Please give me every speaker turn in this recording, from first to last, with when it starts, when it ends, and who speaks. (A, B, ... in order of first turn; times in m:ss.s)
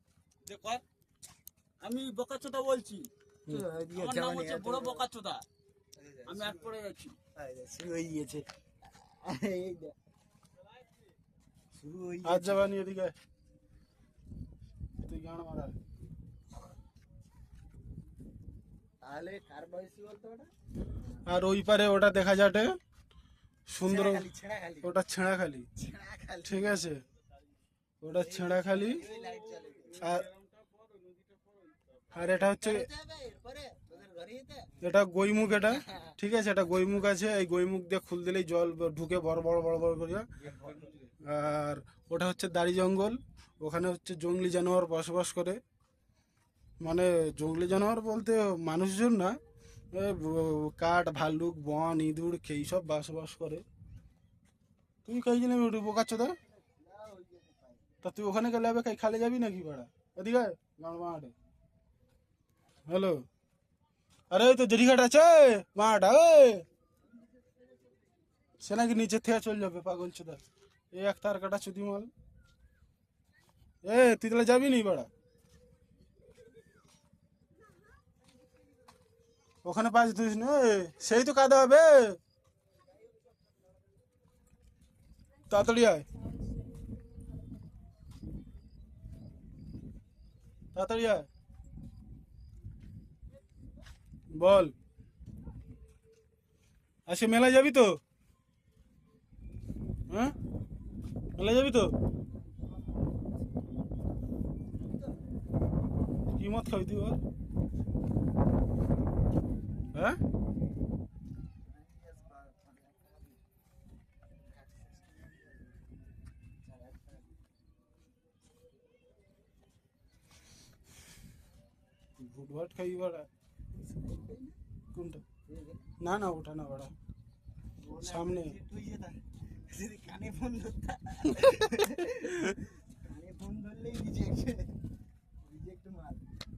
0:00.4-0:00.8 A
0:01.8-0:03.1 A
0:03.5-0:05.0 B
0:03.9-0:05.4 A
0:06.0-0:06.7 B
0:06.3-0:07.2 A
0:07.3-0:09.9 B
0:11.7-0:12.7 B
0:12.2-0:13.1 C
0:15.0-0:15.8 C
0:19.0-0:21.2 B
0:21.2-0:22.8 C
0:23.7-0:24.3 C
0:23.8-0:24.9 B
0:24.8-0:25.7 C
0:25.8-0:26.9 B
0:26.4-0:27.0 C
0:28.0-0:29.0 C
0:28.1-0:30.0 B
0:28.8-0:32.1 A
0:30.0-0:30.3 C
0:32.1-0:32.9 C
0:32.4-0:34.7 B
0:34.8-0:40.3 C
0:35.6-0:36.1 B
0:40.4-0:41.1 B
0:40.7-0:41.0 A
0:41.2-0:45.6 C
0:46.8-0:49.4 C
0:49.9-0:53.6 C
0:55.0-0:56.4 C
0:56.3-0:58.0 B
0:58.0-1:01.3 C
1:02.9-1:03.2 C
1:04.3-1:06.6 C
1:07.0-1:08.0 B
1:08.6-1:12.1 C
1:13.8-1:15.1 C
1:19.6-1:22.2 C
1:23.0-1:23.5 B
1:25.5-1:26.1 C
1:30.7-1:31.3 C
1:34.3-1:34.7 C
1:37.1-1:38.0 C
1:40.1-1:40.4 C
1:41.4-1:41.9 C
1:44.8-1:45.2 B
1:46.3-1:47.2 C
1:51.6-1:53.4 B
1:54.4-1:55.9 B
1:56.6-1:57.4 B
2:02.2-2:03.3 C
2:03.8-2:04.6 B
2:04.9-2:05.2 C
2:05.5-2:05.8 B
2:06.0-2:06.9 C
2:07.8-2:14.7 B
2:08.0-2:08.5 C
2:15.4-2:16.3 B